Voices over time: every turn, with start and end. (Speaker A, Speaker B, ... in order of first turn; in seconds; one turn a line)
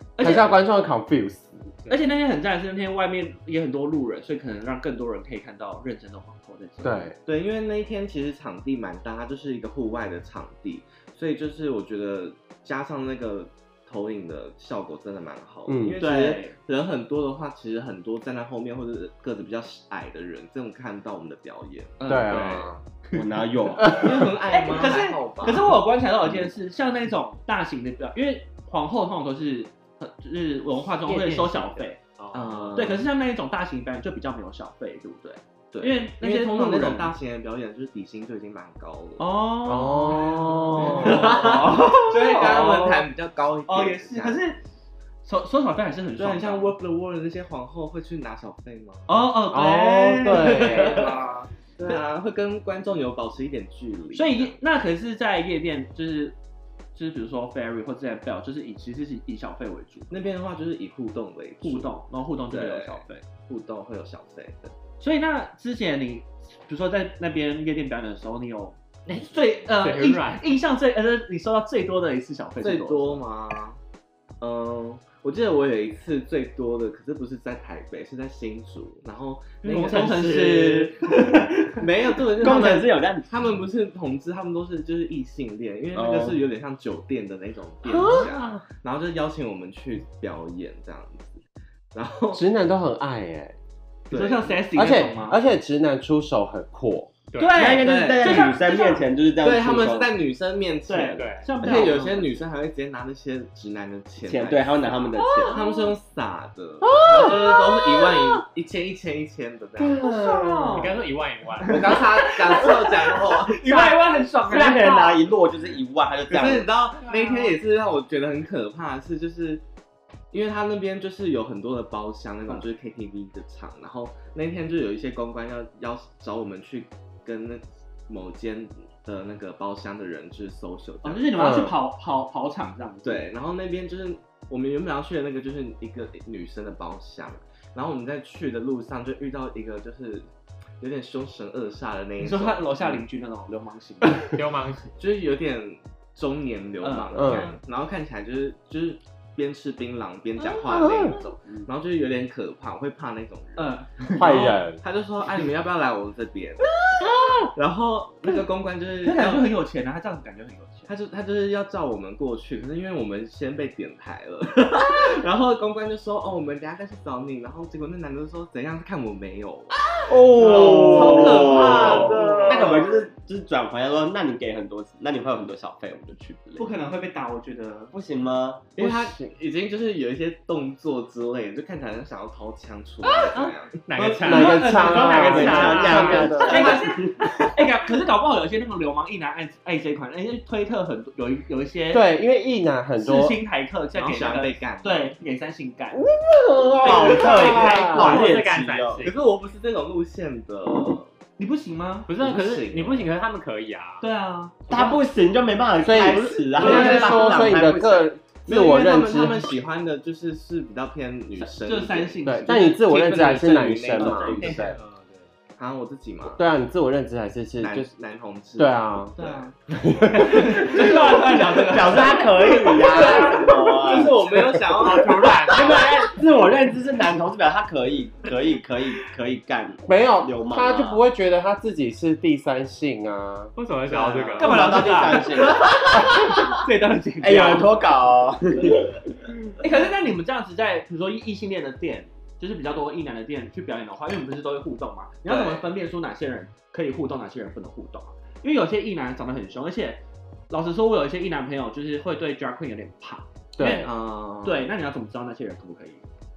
Speaker A: 0.2-0.6
Speaker B: 0.2-1.7
Speaker A: 1.9-7.1
Speaker B: 6.8-7.2
Speaker C: 7.2-22.7
Speaker B: 15.7-16.0
Speaker A: 16.0-16.5
Speaker A: 22.0-23.2
Speaker B: 22.1-22.8
Speaker D: 23.1-24.0
Speaker C: 23.8-25.7
Speaker A: 24.5-32.0
Speaker E: 31.1-32.9
Speaker C: 32.3-33.0
Speaker A: 32.7-37.1
Speaker C: 35.7-39.3
Speaker A: 39.2-43.0
Speaker B: 39.6-41.4
Speaker C: 40.8-44.4
Speaker A: 43.7-44.6
Speaker A: 45.2-46.7
Speaker C: 46.2-49.1
Speaker A: 49.1-51.3
Speaker B: 49.5-51.3
Speaker C: 50.3-54.6
Speaker A: 54.1-56.4
Speaker A: 56.9-60.1
Speaker C: 60.1-61.9
Speaker A: 61.6-63.2
Speaker C: 62.5-64.7
Speaker A: 65.0-73.2
Speaker E: 69.1-70.4
Speaker C: 72.6-73.8
Speaker C: 74.4-91.4
Speaker A: 79.6-81.8
Speaker D: 82.4-83.3
Speaker D: 85.9-86.4
Speaker B: 87.8-88.6
Speaker C: 91.9-92.4
Speaker B: 92.3-93.5
Speaker C: 94.1-94.6
Speaker A: 94.1-95.4
Speaker B: 94.7-97.1
Speaker E: 97.3-97.7
Speaker A: 97.4-99.0
Speaker D: 97.5-100.2
Speaker C: 97.7-98.5
Speaker C: 99.4-110.1
Speaker A: 100.9-102.3
Speaker E: 101.2-101.5
Speaker D: 101.6-102.1
Speaker D: 104.2-105.6
Speaker B: 106.9-107.6
Speaker B: 109.8-110.9
Speaker A: 110.0-111.0
Speaker E: 110.7-112.0
Speaker A: 111.6-115.2
Speaker C: 111.6-113.9
Speaker D: 114.4-116.7
Speaker C: 116.3-119.6
Speaker C: 120.3-131.3
Speaker A: 131.0-133.2
Speaker B: 131.3-131.8
Speaker C: 133.0-140.3
Speaker C: 140.8-143.0
Speaker A: 142.2-144.3
Speaker E: 144.3-144.9
Speaker C: 145.0-156.7
Speaker A: 146.8-147.6
Speaker B: 147.1-147.5
Speaker B: 150.4-151.2
Speaker A: 153.6-154.6
Speaker B: 154.1-154.8
Speaker C: 157.5-159.5
Speaker A: 159.0-160.9
Speaker C: 160.9-169.8
Speaker D: 170.1-176.7
Speaker B: 170.2-172.8
Speaker C: 170.4-173.0
Speaker A: 170.7-171.9
Speaker A: 176.6-177.9
Speaker D: 177.9-178.7
Speaker C: 178.7-184.5
Speaker B: 178.8-179.2
Speaker E: 183.3-186.7
Speaker B: 184.2-186.8
Speaker A: 184.2-192.0
Speaker D: 184.8-187.2
Speaker B: 191.9-193.4
Speaker A: 193.0-196.0
Speaker C: 193.9-195.1
Speaker B: 195.9-198.2
Speaker D: 196.7-199.1
Speaker A: 196.8-198.4
Speaker E: 197.6-199.1
Speaker C: 199.0-201.1
Speaker A: 201.4-202.1
Speaker E: 202.1-204.1
Speaker C: 202.2-203.1
Speaker A: 204.0-204.9
Speaker D: 204.7-208.1
Speaker B: 205.8-209.4
Speaker C: 206.5-207.2
Speaker A: 206.6-207.2
Speaker C: 208.4-214.6
Speaker A: 211.3-212.8
Speaker B: 212.2-214.8
Speaker A: 214.0-214.7
Speaker E: 214.4-215.2
Speaker C: 215.6-216.4
Speaker B: 216.4-217.9
Speaker C: 217.6-219.6
Speaker B: 218.6-220.8
Speaker A: 220.2-223.5
Speaker C: 220.3-222.0
Speaker D: 221.5-224.2
Speaker C: 222.7-225.7
Speaker E: 224.7-226.0
Speaker D: 225.4-231.0
Speaker B: 229.8-234.0
Speaker E: 233.6-235.1
Speaker D: 234.1-236.1
Speaker A: 234.4-237.8
Speaker D: 237.2-239.0
Speaker A: 239.6-256.0
Speaker C: 245.2-245.6
Speaker B: 253.6-253.9
Speaker C: 253.8-254.6